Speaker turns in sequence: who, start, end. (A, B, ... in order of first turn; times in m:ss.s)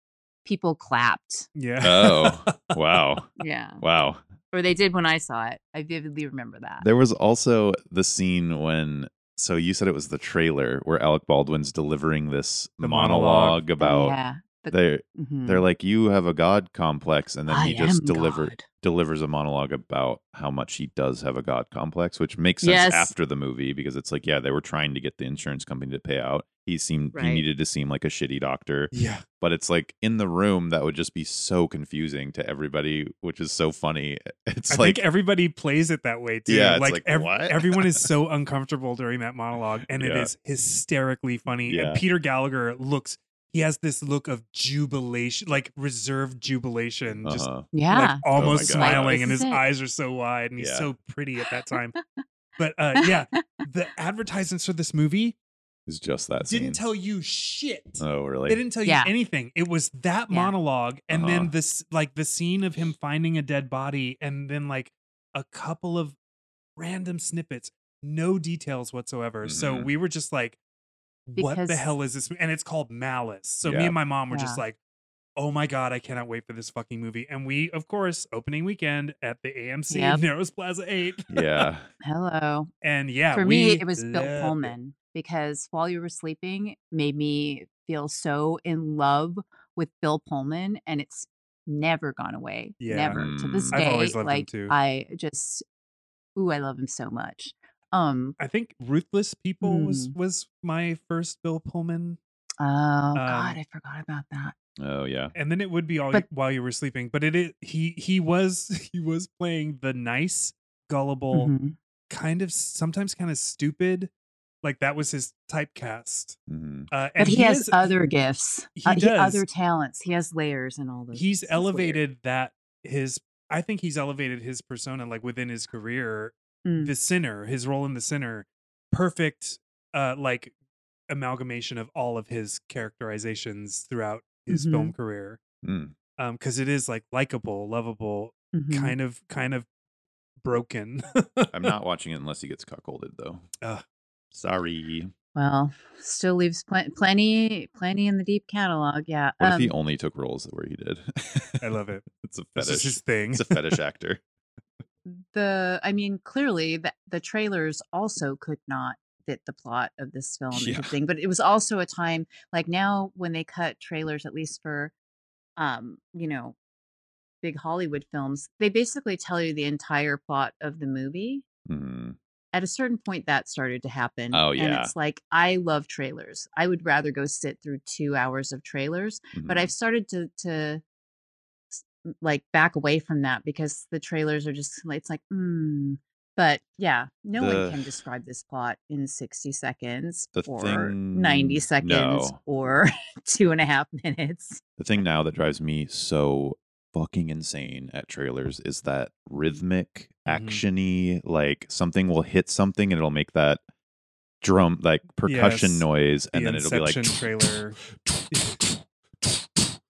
0:00.4-0:01.5 A
0:01.5-0:02.7 B
0:01.8-0:04.2 C
0:03.4-0:03.8 A
0:04.5-0:06.8 A
0:06.8-0:14.2 C
0:12.8-0:13.6 B
0:13.8-0:15.6 A
0:14.7-0:35.0 C
0:17.5-0:18.6 A
0:22.6-0:23.1 A
0:27.1-0:27.4 A
0:28.9-0:29.2 B
0:34.7-0:52.0 B
0:36.5-0:38.1 C
0:39.9-0:40.3 C
0:41.7-0:42.0 C
0:47.2-0:47.7 C
0:47.7-0:49.6 A
0:48.3-0:49.2 C
0:50.6-0:50.9 C
0:52.0-0:52.2 A
0:52.6-0:55.4 B
0:53.0-0:53.6 A
0:55.9-0:56.8 C
0:56.4-1:06.2 B
0:58.0-0:58.6 C
0:58.8-0:59.1 A
1:00.3-1:00.5 A
1:01.1-1:01.5 C
1:06.8-1:10.6 B
1:09.4-1:09.9 C
1:11.3-1:14.8 B
1:11.4-1:11.8 A
1:13.6-1:13.9 C
1:14.3-1:14.6 A
1:15.4-1:21.4 B
1:19.9-1:20.2 A
1:21.3-1:21.9 C
1:22.0-1:22.7 A
1:22.8-1:24.7 B
1:23.3-1:35.6 A
1:32.8-1:34.7 B
1:33.1-1:33.8 C
1:36.4-1:38.4 A
1:38.4-1:42.2 B
1:39.6-1:40.1 A
1:42.6-1:44.5 A
1:43.1-1:43.6 B
1:44.8-1:45.3 C
1:45.3-1:51.5 B
1:51.3-1:51.7 A
1:52.1-1:54.1 B
1:54.6-1:56.4 B
1:56.5-1:56.9 C
1:56.9-1:57.9 B
1:57.2-2:02.0 A
1:58.8-1:59.4 B
2:01.1-2:10.5 B
2:06.6-2:06.9 A
2:11.1-2:15.4 B
2:14.5-2:14.9 A
2:15.6-2:15.9 C
2:16.2-2:19.7 B
2:18.5-2:19.0 A
2:20.4-2:21.7 B
2:21.5-2:23.4 C
2:24.3-2:25.1 C
2:25.3-2:29.7 A
2:29.4-2:34.2 C
2:31.6-2:33.6 B
2:35.0-2:44.9 A
2:40.5-2:40.9 C
2:45.6-2:46.6 A
2:47.4-2:51.4 A
2:51.7-2:52.2 C
2:52.5-3:00.8 A
2:54.3-2:54.9 C
2:59.3-2:59.7 C
3:01.7-3:14.6 A
3:07.4-3:07.8 C
3:10.3-3:12.4 C
3:14.8-3:23.6 C
3:20.3-3:20.6 B
3:24.4-3:27.2 C
3:25.2-3:27.8 B
3:28.0-3:28.3 C
3:28.3-3:28.7 B